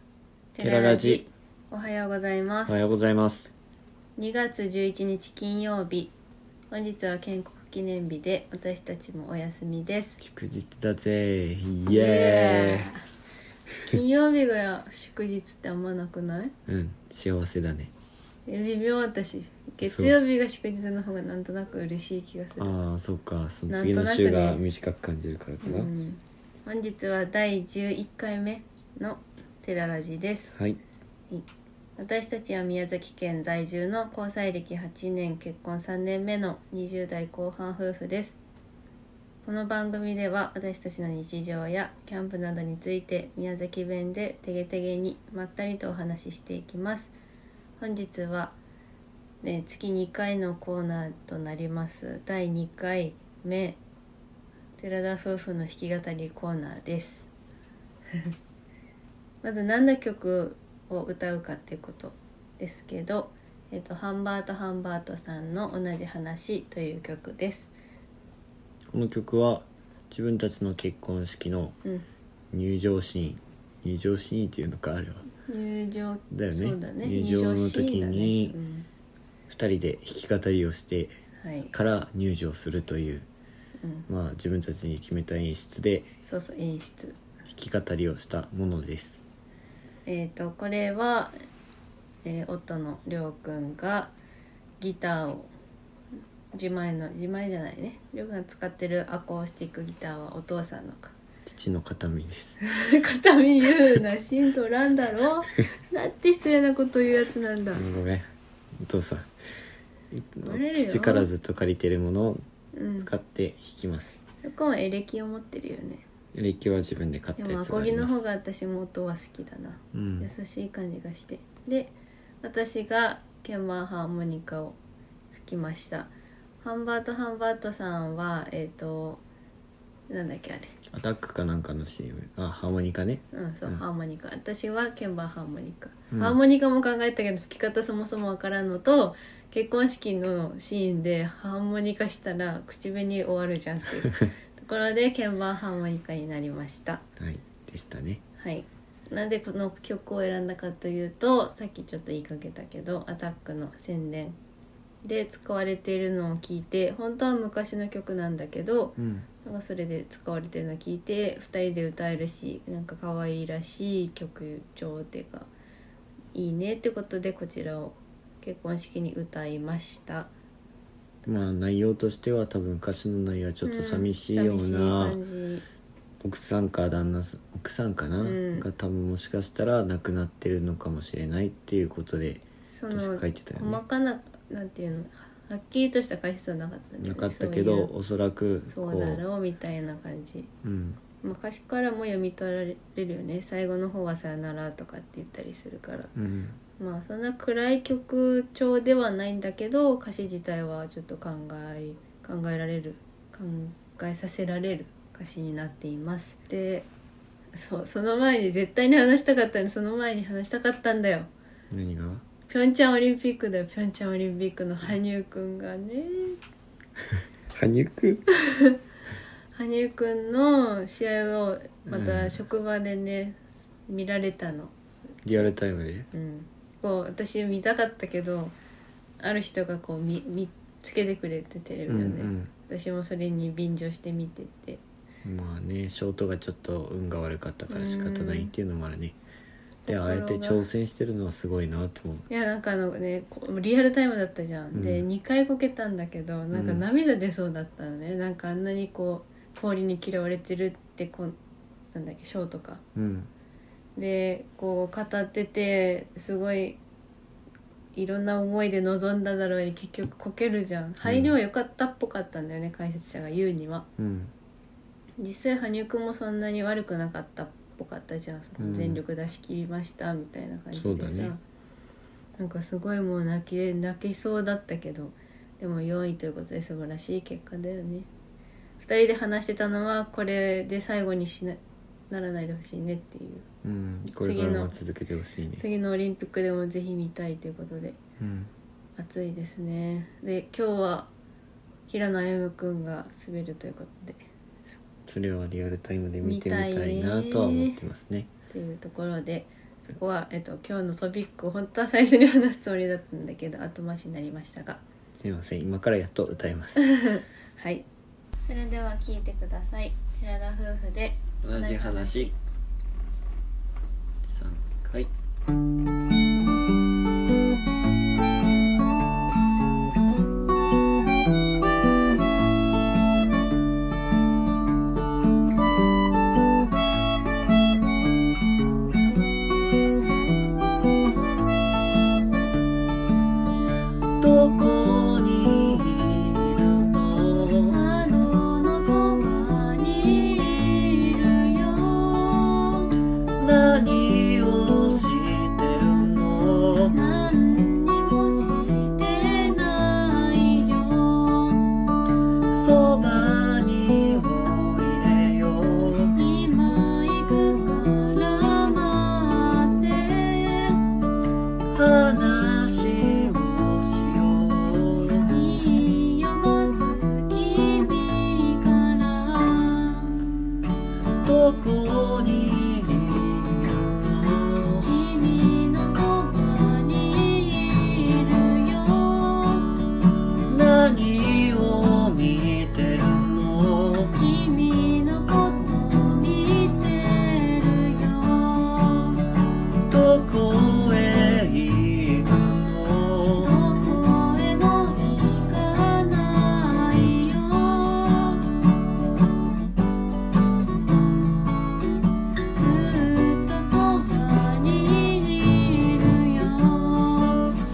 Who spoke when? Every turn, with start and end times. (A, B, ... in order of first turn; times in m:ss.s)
0:00.5-0:02.8 A
0:00.6-0:01.3 B
0:02.7-0:03.5 B
0:04.2-0:06.1 A
0:06.7-0:10.2 A
0:10.2-0:12.9 B
0:11.9-0:13.0 A
0:13.8-0:16.5 A
0:16.7-0:17.9 B
0:18.4-0:22.7 A
0:19.8-0:20.1 B
0:22.6-0:25.9 B
0:23.7-0:24.6 A
0:25.6-0:30.5 A
0:30.5-0:30.8 B
0:31.3-0:38.4 A
0:39.4-0:47.1 A
0:47.8-0:48.6 A
0:49.4-0:53.8 A
0:54.8-0:57.3 A
0:59.4-1:07.7 A
1:08.9-1:11.8 B
1:12.5-1:15.2 B
1:15.5-1:18.9 A
1:16.3-1:18.6 B
1:19.5-1:23.3 B
1:21.4-1:21.7 A
1:23.8-1:24.1 A
1:24.1-1:26.1 B
1:26.2-1:27.2 A
1:27.5-1:29.2 B
1:30.0-1:31.3 A
1:32.2-1:34.1 A
1:34.8-1:35.5 A
1:36.5-1:41.1 A
1:41.4-1:42.6 B
1:42.6-1:47.8 A
1:47.7-1:48.3 B
1:48.8-1:49.3 B
1:50.1-1:52.4 B
1:50.4-1:51.3 A
1:52.7-1:53.1 A
1:53.0-1:54.2 B
1:54.4-1:56.0 A
1:56.3-1:58.2 B
1:57.4-2:04.8 A
1:59.9-2:00.3 B
2:05.3-2:09.2 A
2:10.1-2:10.7 A
2:10.9-2:13.8 B
2:13.3-2:27.0 A
2:16.1-2:16.4 B
2:27.2-2:28.2 B
2:28.4-2:34.4 A
2:35.0-2:45.5 A
2:39.0-2:39.3 B
2:46.3-2:50.3 A
2:51.2-2:55.2 B
2:53.6-2:55.6 A
2:56.2-3:03.8 B
2:58.2-2:58.6 A
3:02.7-3:07.9 A
3:07.0-3:09.2 B
3:08.7-3:10.5 A
3:10.6-3:11.0 B
3:11.2-3:16.1 A
3:16.1-3:16.6 B
3:16.8-3:26.9 A
3:27.5-3:31.3 A
3:31.7-3:32.2 B
3:32.5-3:36.4 A
3:37.5-3:38.2 B
3:38.3-3:38.8 A
3:39.5-3:44.7 A
3:41.8-3:42.4 B
3:45.2-3:46.1 B
3:46.1-3:48.5 A
3:49.2-3:54.8 A
3:51.9-3:52.5 B
3:55.2-3:59.2 B
3:57.7-3:58.5 A
3:59.9-4:00.6 A
3:59.9-4:02.4 B
4:02.3-4:11.3 A
4:04.7-4:05.1 B
4:06.5-4:06.8 B
4:11.9-4:12.8 A
4:13.0-4:13.3 B
4:14.0-4:16.8 A
4:17.9-4:23.9 A
4:21.0-4:21.3 B
4:24.0-4:24.3 B
4:25.2-4:31.4 A
4:28.6-4:29.0 B
4:30.7-4:31.3 B
4:32.4-4:38.1 A
4:38.8-4:43.4 A
4:43.6-4:45.6 B
4:44.1-4:44.7 A
4:45.6-4:48.0 A
4:48.2-4:48.5 B
4:49.0-4:51.1 A
4:51.9-4:54.2 A
4:55.0-4:58.3 B
4:56.2-4:57.8 A
4:58.5-5:04.8 A
5:05.2-5:06.8 B
5:06.8-5:07.8 A
5:08.4-5:12.3 A
5:11.4-5:12.3 B
5:14.2-5:15.1 B
5:34.2-5:37.8 B
5:37.7-5:42.9 A
5:43.4-5:47.0 B
5:46.9-5:51.7 A
5:52.5-5:56.2 B
5:56.1-6:00.8 A
6:01.7-6:05.3 B
6:05.2-6:10.2 A
6:11.2-6:14.9 B
6:14.8-6:19.7 A
6:20.4-6:24.1 B
6:24.1-6:29.2 A
6:29.9-6:33.5 B
6:33.3-6:38.5 A
6:42.5-6:47.5 A